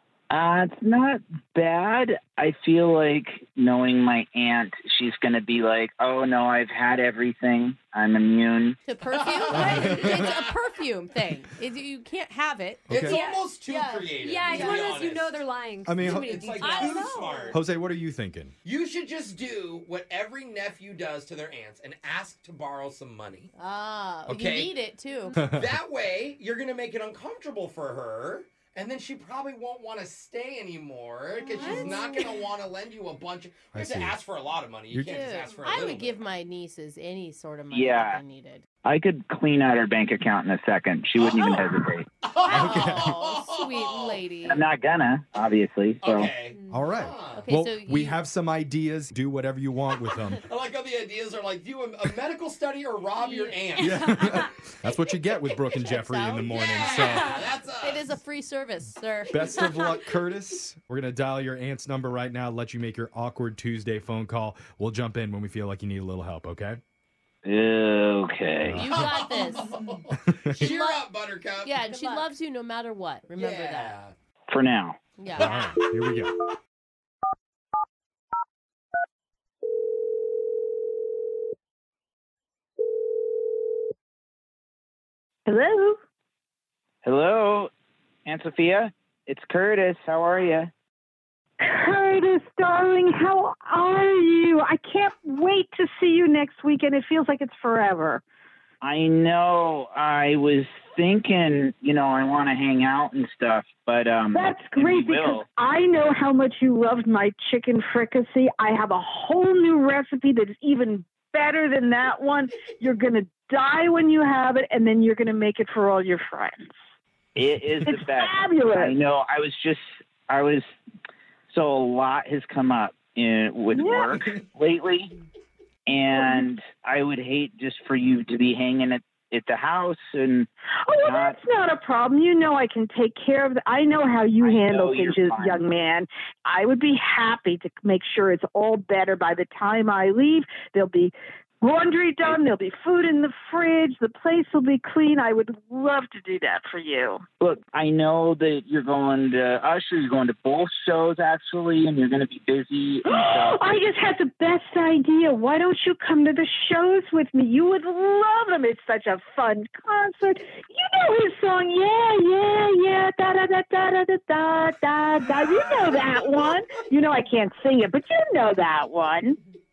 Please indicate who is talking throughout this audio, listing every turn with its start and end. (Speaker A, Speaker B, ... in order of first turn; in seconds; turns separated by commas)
Speaker A: 0.3-8.8, Speaker B: 8.9-12.9, Speaker C: 9.1-10.6, Speaker D: 9.5-10.3, Speaker D: 12.9-13.2, Speaker C: 12.9-15.4, Speaker E: 13.1-13.4, Speaker B: 13.5-15.0, Speaker E: 14.2-17.4, Speaker D: 15.8-16.6, Speaker C: 16.0-17.6, Speaker B: 16.6-17.5, Speaker D: 17.5-18.5, Speaker C: 18.6-23.5, Speaker B: 23.6-25.4, Speaker C: 24.3-24.8, Speaker C: 25.4-36.2, Speaker D: 25.4-25.6, Speaker B: 31.4-32.3, Speaker E: 31.6-31.9, Speaker D: 33.7-34.2, Speaker D: 34.9-35.3, Speaker B: 35.0-38.6, Speaker A: 37.7-38.2, Speaker A: 38.9-42.0, Speaker C: 41.2-44.2, Speaker B: 42.5-44.6, Speaker D: 42.5-43.2, Speaker A: 44.4-46.3, Speaker C: 46.0-47.5, Speaker E: 46.5-46.9, Speaker D: 46.7-50.4, Speaker B: 47.4-48.2, Speaker C: 50.4-54.1, Speaker E: 53.2-54.5, Speaker D: 53.8-57.3, Speaker B: 55.8-59.6, Speaker C: 56.5-58.2, Speaker E: 57.0-57.5, Speaker D: 59.3-66.8, Speaker A: 67.5-68.8, Speaker D: 68.6-69.1, Speaker B: 68.7-69.7, Speaker C: 68.9-72.2, Speaker D: 70.2-70.7, Speaker B: 70.6-71.0, Speaker B: 71.6-74.0, Speaker C: 73.3-74.1, Speaker A: 74.5-75.0, Speaker B: 75.2-75.5, Speaker D: 75.3-76.3, Speaker C: 75.4-75.7, Speaker F: 85.5-86.0, Speaker A: 87.0-87.7, Speaker A: 88.3-90.7, Speaker F: 91.6-98.2, Speaker A: 98.8-105.5, Speaker F: 104.3-116.8, Speaker A: 117.4-120.6, Speaker F: 117.9-118.9, Speaker A: 121.5-125.1, Speaker F: 123.8-124.0, Speaker A: 125.9-130.5, Speaker F: 130.8-147.2, Speaker A: 131.1-131.4, Speaker A: 134.4-135.6, Speaker A: 147.4-153.6, Speaker F: 153.1-169.4